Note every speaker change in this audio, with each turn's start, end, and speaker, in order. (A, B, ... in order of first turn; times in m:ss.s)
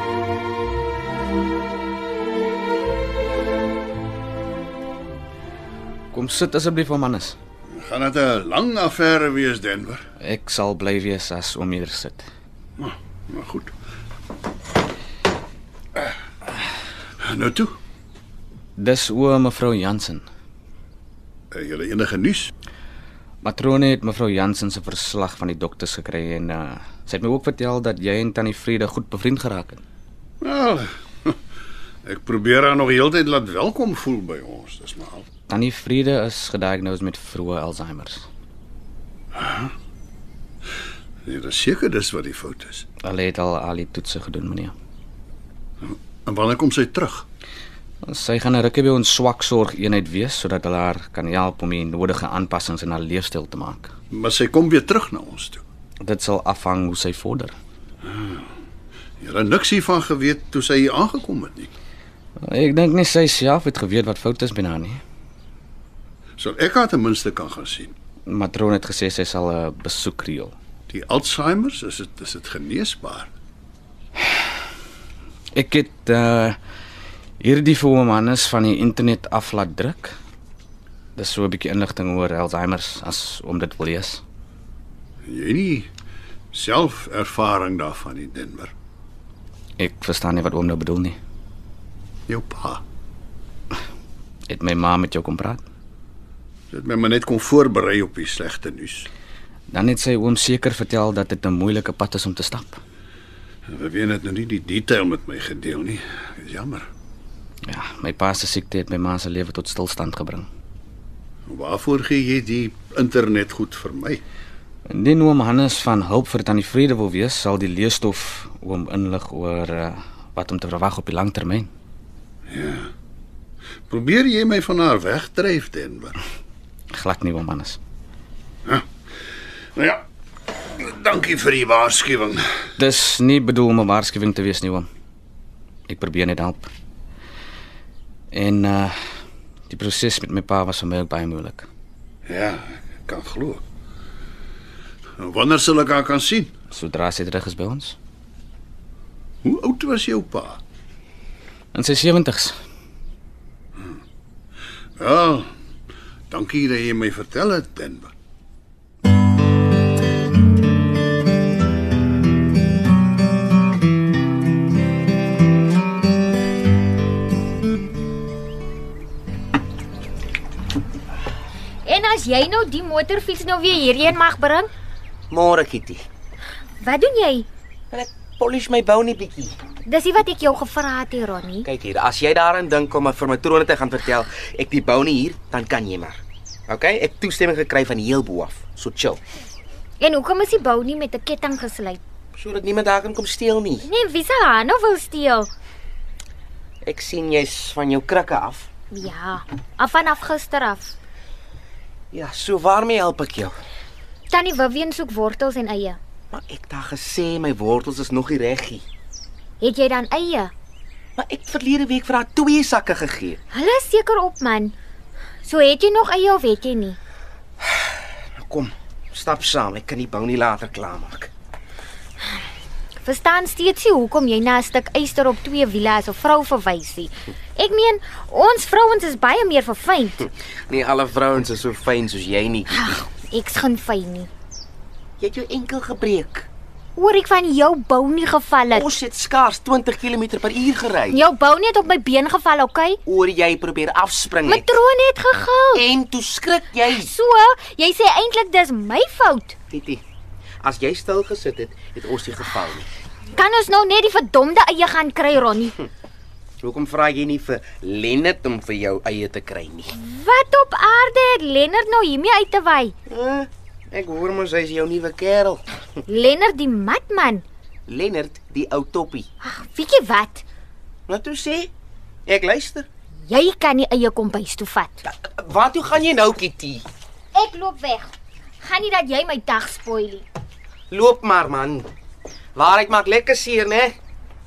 0:06.1-0:07.4 A
0:07.7-0:10.0 B
0:10.2-0:12.3 A
0:12.8-0:13.7 B
0:17.2-0:17.8 B
0:18.8-0:20.3 A
0:21.5-0:22.5 B
0:23.4-0:29.8 A
0:30.4-0:31.4 B
0:32.0-0:35.3 B
0:35.5-0:38.3 A
0:39.3-0:39.7 B
0:41.3-0:42.9 B
0:43.0-0:44.7 A
0:45.8-0:47.3 B
0:48.0-0:53.9 A
0:54.1-0:55.6 B
0:56.0-0:57.6 A
0:58.1-0:58.4 B
0:59.2-1:01.7 B
1:02.4-1:05.0 A
1:06.4-1:07.9 B
1:08.3-1:10.6 A
1:10.9-1:13.3 B
1:15.5-1:16.6 A
1:17.4-1:20.2 A
1:21.2-1:24.2 A
1:25.3-1:25.9 B
1:26.5-1:28.7 B
1:29.8-1:31.2 A
1:32.3-1:32.8 B
1:34.5-1:35.6 A
1:36.7-1:39.1 B
1:39.7-1:42.8 A
1:43.7-1:46.9 B
1:47.7-1:50.5 A
1:51.5-1:54.2 B
1:54.9-2:01.7 A
2:02.5-2:02.9 B
2:03.9-2:06.2 B
2:06.9-2:07.8 A
2:09.8-2:10.0 B
2:10.8-2:12.7 B
2:12.8-2:14.9 A
2:15.9-2:16.7 A
2:18.3-2:19.0 A
2:19.7-2:21.7 A
2:22.3-2:23.6 B
2:25.2-2:26.5 B
2:26.7-2:28.0 A
2:29.4-2:30.6 B
2:31.7-2:32.6 A
2:35.0-2:35.5 B
2:36.3-2:38.1 B
2:51.8-2:54.7 C
2:55.3-2:56.0 D
2:56.8-2:57.5 C
2:57.9-2:59.6 D
2:59.9-3:01.7 C
3:01.7-3:09.2 D
3:10.0-3:12.0 C
3:12.3-3:13.9 D
3:13.8-3:15.5 C
3:16.8-3:18.7 D
3:18.9-3:21.0 C
3:22.1-3:23.6 D
3:24.3-3:26.0 C
3:26.3-3:28.8 D
3:29.6-3:30.5 C
3:31.2-3:33.4 D
3:33.5-3:34.8 C
3:35.4-3:37.0 C
3:37.6-3:41.3 D
3:43.0-3:50.3 C
3:50.7-3:53.0 D
3:52.8-3:54.3 C
3:55.2-3:56.5 D
3:57.0-3:58.9 C
3:58.7-4:01.2 D
4:01.1-4:03.0 C
4:03.1-4:04.7 D
4:04.4-4:05.9 C
4:05.7-4:07.1 D
4:06.9-4:09.6 C
4:09.7-4:10.0 D
4:10.6-4:12.9 D
4:13.3-4:15.8 C
4:16.6-4:19.9 D
4:19.9-4:22.9 C
4:23.1-4:25.8 D
4:26.1-4:27.4 C
4:27.9-4:29.3 D
4:29.4-4:30.4 C
4:31.1-4:31.7 D
4:32.3-4:32.9 D
4:33.3-4:35.0 C
4:35.1-4:36.8 D
4:37.3-4:40.3 C
4:40.9-4:41.9 D
4:42.6-4:44.0 D